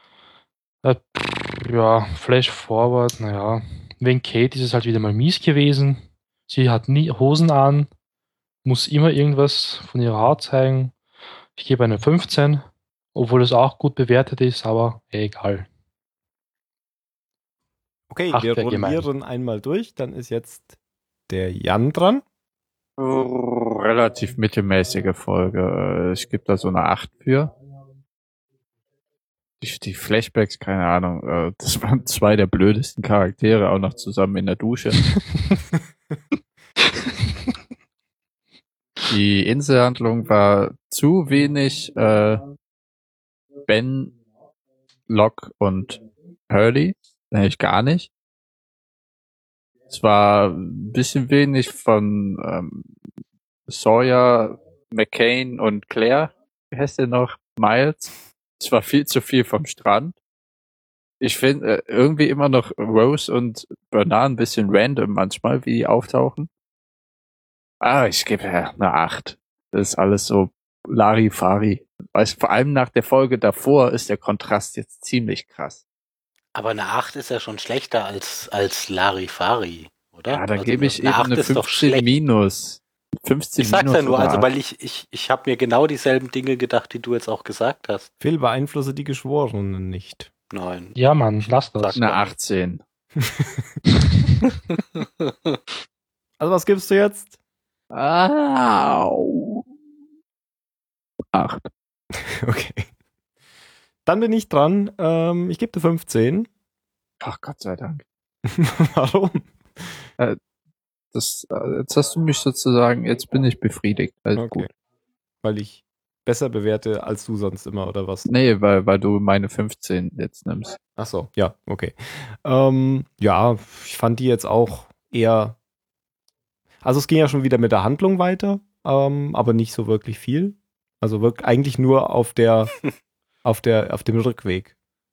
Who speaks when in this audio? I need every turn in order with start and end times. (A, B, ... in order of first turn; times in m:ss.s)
0:00.8-0:07.9 A
0:08.6-0:10.9 A
0:11.6-0:15.7 A
0:18.1-0:20.8 B
0:18.3-0:19.1 A
0:21.3-0:22.2 B
0:23.0-0:27.5 C
0:29.6-0:35.0 C
0:39.1-0:42.4 C
0:43.7-0:44.1 C
0:45.1-0:48.1 C
0:49.9-0:52.9 C
0:53.7-1:00.2 C
1:01.2-1:06.5 C
1:07.8-1:15.8 C
1:16.5-1:22.1 D
1:20.3-1:24.5 C
1:23.6-1:28.1 D
1:28.2-1:30.3 B
1:30.5-1:32.3 D
1:31.0-1:32.0 A
1:31.9-1:32.8 C
1:33.2-1:33.8 B
1:35.0-1:35.3 D
1:36.4-1:37.3 B
1:37.9-1:39.6 C
1:41.3-1:41.7 C
1:42.4-1:42.9 B
1:44.0-1:46.5 B
1:47.2-1:48.0 C
1:48.5-1:49.5 B
1:51.1-1:54.7 C
1:54.4-1:54.7 B
1:55.4-1:58.3 B
1:58.3-2:00.8 C
2:01.0-2:05.6 B
2:06.8-2:12.7 B
2:13.4-2:14.7 B